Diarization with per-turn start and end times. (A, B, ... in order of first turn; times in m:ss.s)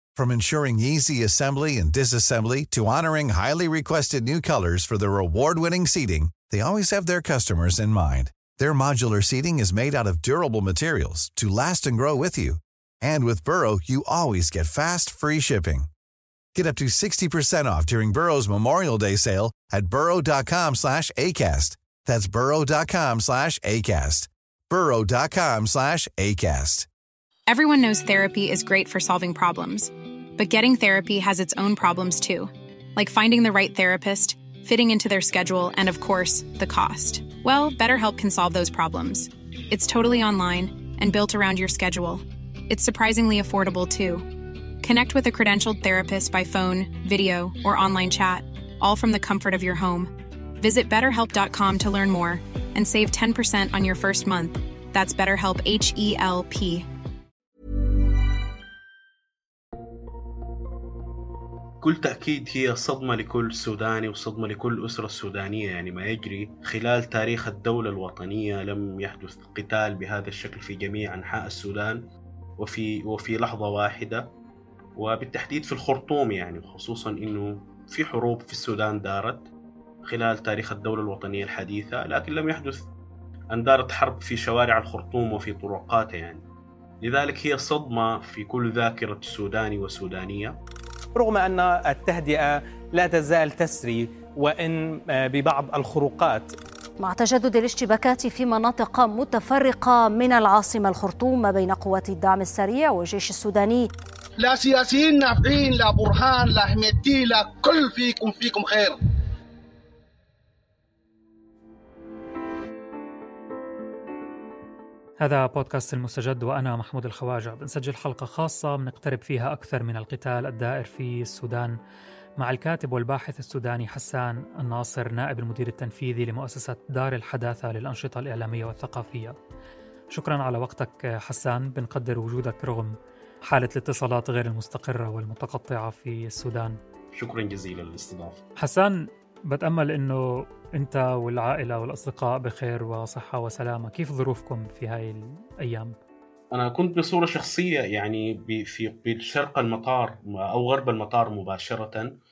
0:00.2-0:15.9 A
0:16.6-0:26.9 A
0:27.5-0:44.3 B
0:44.8-0:56.9 B
1:01.8-1:12.0 C
1:12.6-1:14.3 C
1:15.0-1:19.5 C
1:20.1-1:22.9 C
1:23.5-1:26.4 C
1:27.0-1:30.6 C
1:31.2-1:36.5 D
1:37.0-1:43.9 E
1:44.4-1:49.0 F
1:55.2-2:01.8 G
2:02.4-2:09.4 G
2:10.1-2:12.9 G
2:13.5-2:16.8 G
2:17.2-2:18.4 C
2:18.6-2:19.0 G
2:19.5-2:26.0 G
2:26.5-2:32.1 C